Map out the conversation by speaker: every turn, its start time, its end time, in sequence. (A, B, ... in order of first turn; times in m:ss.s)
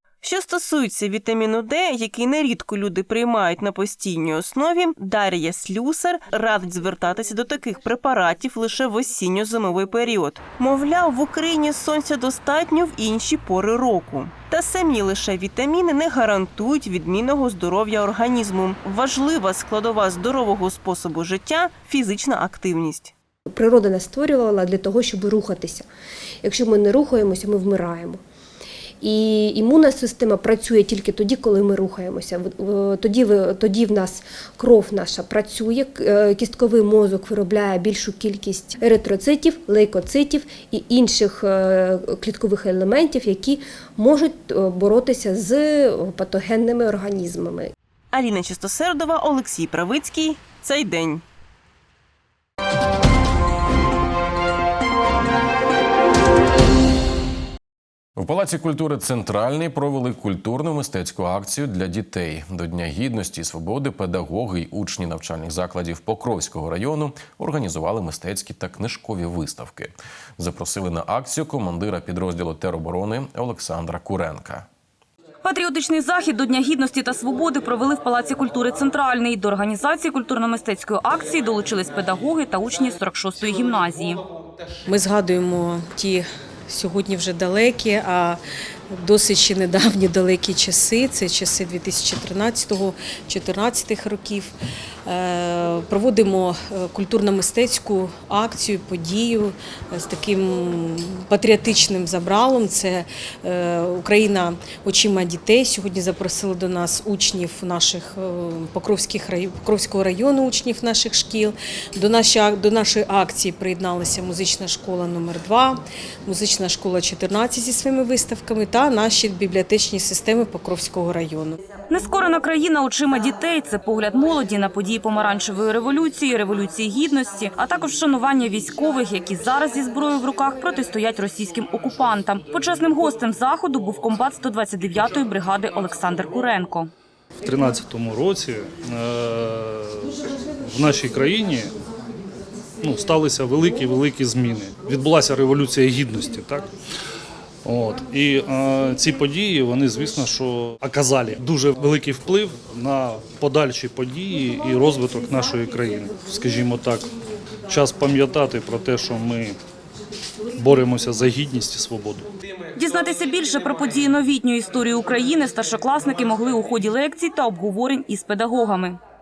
0:00.2-0:23.1 A
0:23.5-0:25.9 B
0:26.4-0:28.2 B
0:29.0-0:47.7 B
0:48.1-0:51.2 A
0:58.2-1:14.6 C
1:15.4-1:24.2 D
1:24.9-1:34.5 E
1:35.0-2:01.6 E
2:01.9-2:16.9 D
2:17.4-2:21.7 F
2:22.8-2:26.7 F
2:27.6-2:37.1 F
2:37.7-2:39.6 F
2:40.6-2:42.3 F
2:42.8-2:49.0 D